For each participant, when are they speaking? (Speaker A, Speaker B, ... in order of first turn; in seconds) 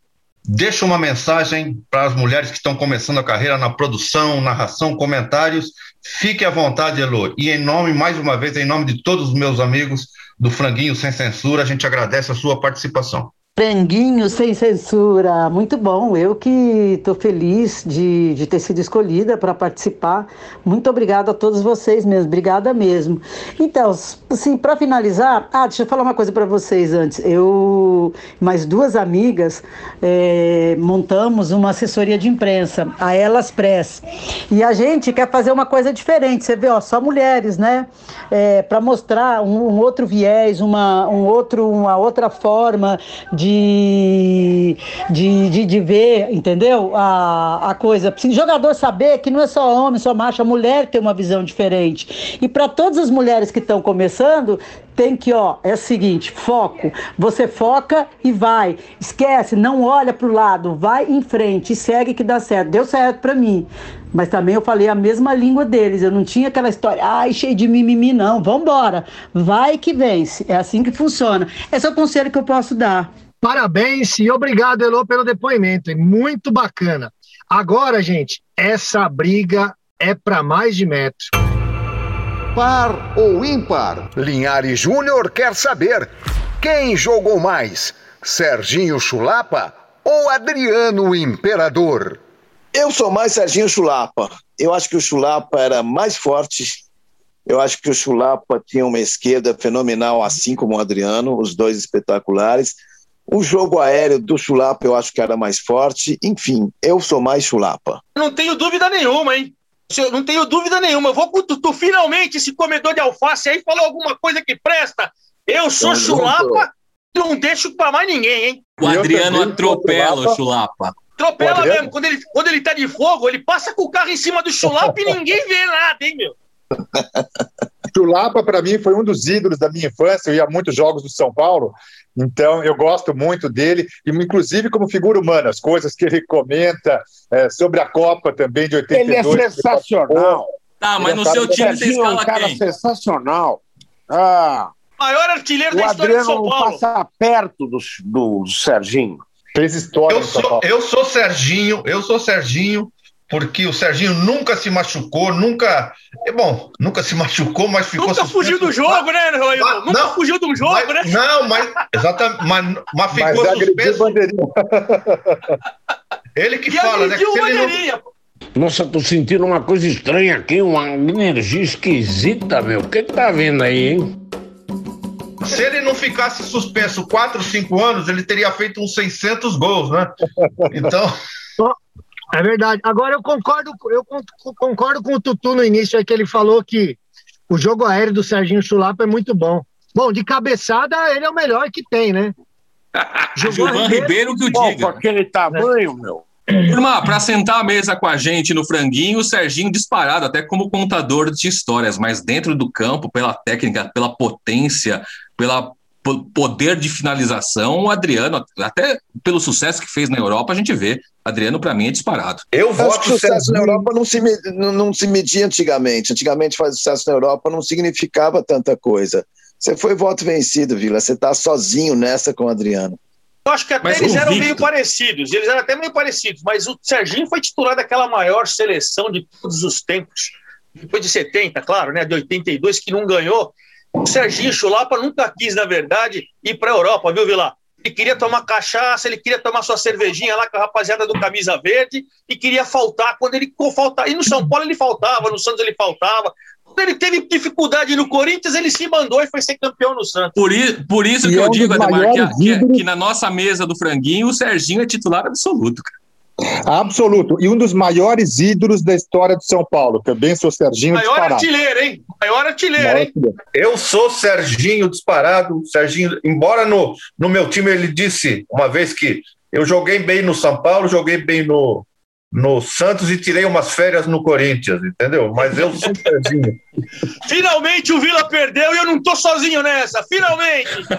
Speaker A: 0.5-13.3, 150.1-159.0, 159.6-164.2, 166.3-167.8, 175.4-180.2, 180.7-181.2, 212.5-213.9, 263.5-276.6
Speaker B: 13.6-73.1
Speaker C: 73.4-81.3, 182.3-187.0, 187.5-192.3, 193.4-194.1
Speaker D: 82.5-92.2
Speaker E: 92.7-96.8, 97.5-108.0, 115.8-116.6, 212.8-223.0
Speaker F: 108.2-118.7, 121.2-126.3, 145.0-146.8, 158.0-161.8, 166.7-168.0, 223.5-250.4, 260.9-263.1, 277.2-280.9
Speaker G: 118.8-120.9, 140.8-142.6, 193.4-195.0, 196.7-212.4, 223.8-224.7, 250.4-255.9
Speaker H: 118.8-120.4, 121.4-121.9, 124.7-125.0, 127.9-140.4, 141.1-141.7, 149.6-150.6, 163.1-165.6, 251.2-252.8, 256.7-261.5, 262.8-263.4
Speaker I: 138.9-140.5, 141.0-144.7, 145.7-149.2, 168.6-174.1, 194.5-196.2